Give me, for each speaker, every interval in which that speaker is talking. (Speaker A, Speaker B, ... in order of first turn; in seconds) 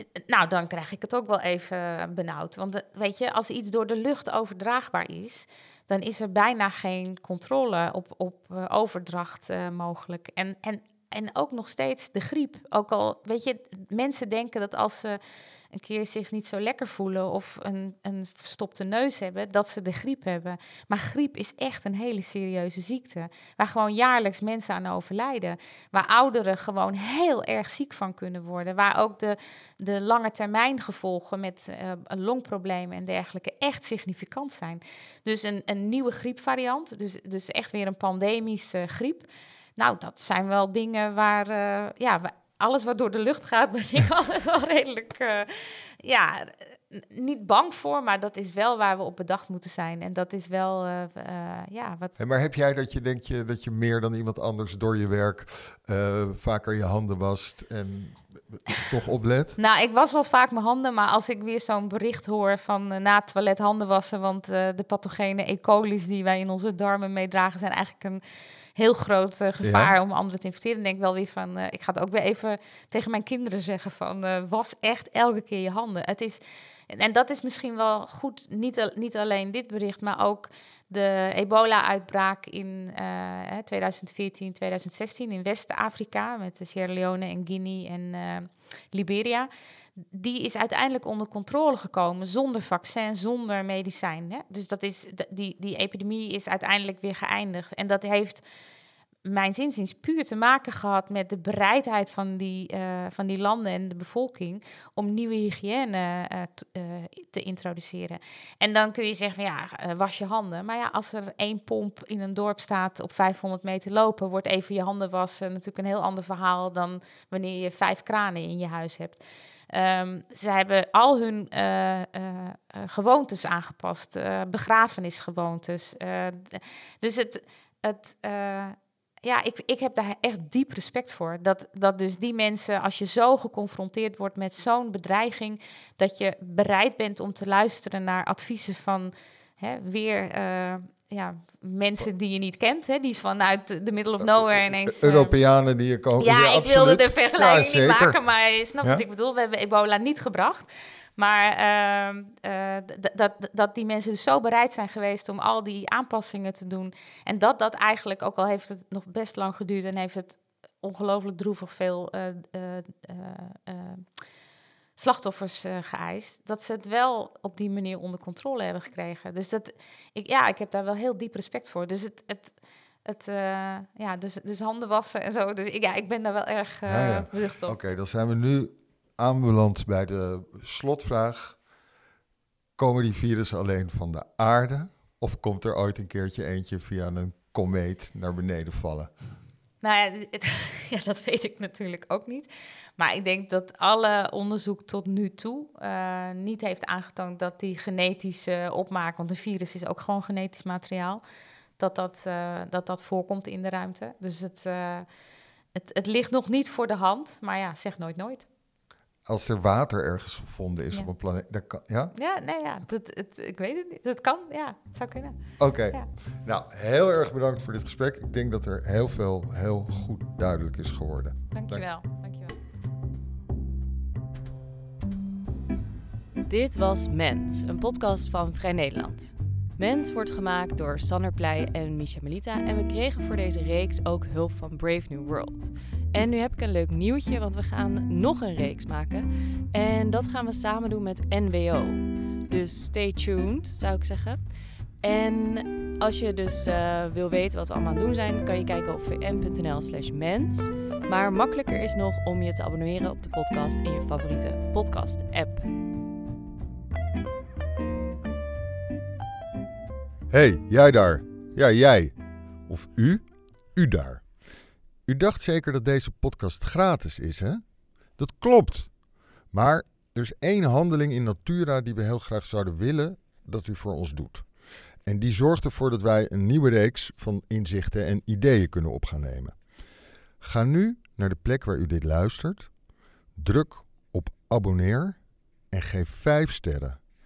Speaker A: 0.3-15.2, 15.7-52.1, 59.6-68.2, 68.8-89.5, 90.1-98.4, 99.3-145.3, 146.2-164.1, 165.0-177.8, 189.8-201.2, 201.8-205.1, 205.8-208.5, 212.2-216.1, 221.5-222.5
Speaker B: 52.2-59.6, 69.6-69.9, 144.2-148.2, 176.9-181.6, 182.8-189.1, 209.3-212.1, 215.6-221.9, 260.3-262.1, 262.7-264.3, 265.1-267.6, 268.2-268.9, 269.5-274.5, 275.1-279.6, 280.4-282.7, 283.4-285.2, 285.7-287.0
Speaker C: 226.5-244.4, 245.0-255.7